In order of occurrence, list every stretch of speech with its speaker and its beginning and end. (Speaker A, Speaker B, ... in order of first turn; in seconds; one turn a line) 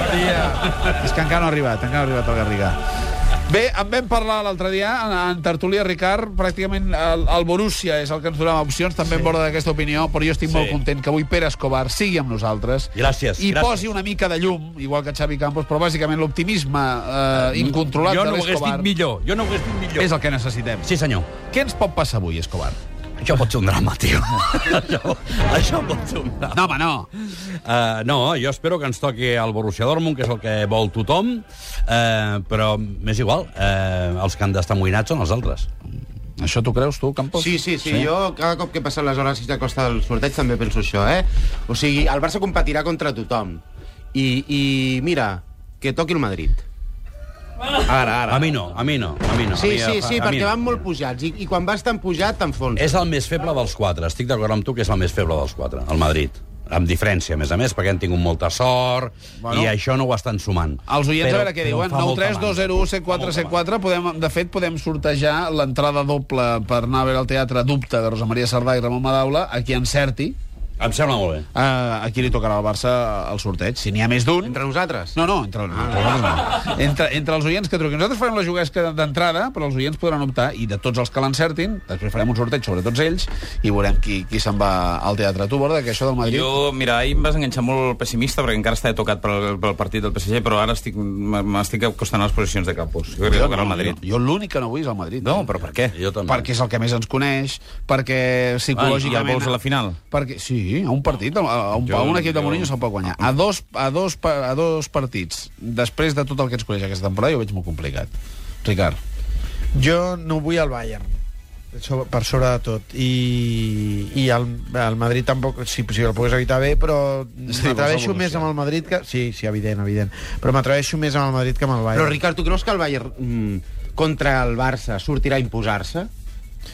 Speaker A: 0.8-2.8
Speaker A: 3.5-18.9
Speaker B: 10.5-10.8
Speaker B: 12.9-13.9
Speaker B: 17.4-20.1
Speaker A: 19.9-20.9
Speaker B: 20.8-21.3
Speaker A: 21.4-22.8
Speaker B: 23.2-26.8
Speaker A: 26.5-27.1
Speaker B: 27.4-35.7
Speaker A: 36.4-38.1
Speaker C: 37.4-43.6
Speaker C: 44.1-46.6
Speaker C: 47.9-48.5
Speaker B: 48.2-50.9
Speaker C: 49.5-53.0
Speaker B: 52.7-63.6
Speaker A: 59.4-59.7
Speaker A: 60.9-70.3
Speaker B: 70.8-71.5
Speaker A: 71.5-74.6
Speaker C: 74.4-75.1
Speaker A: 75.1-86.5
Speaker C: 75.7-76.3
Speaker D: 86.2-94.0
Speaker A: 93.3-95.5
Speaker D: 95.2-95.9
Speaker B: 95.9-96.5
Speaker A: 96.3-99.5
Speaker D: 98.7-100.0
Speaker A: 100.1-108.1
Speaker D: 101.8-102.7
Speaker A: 108.6-109.0
Speaker E: 109.7-111.1
Speaker E: 111.7-122.2
Speaker A: 117.5-118.5
Speaker C: 121.9-126.1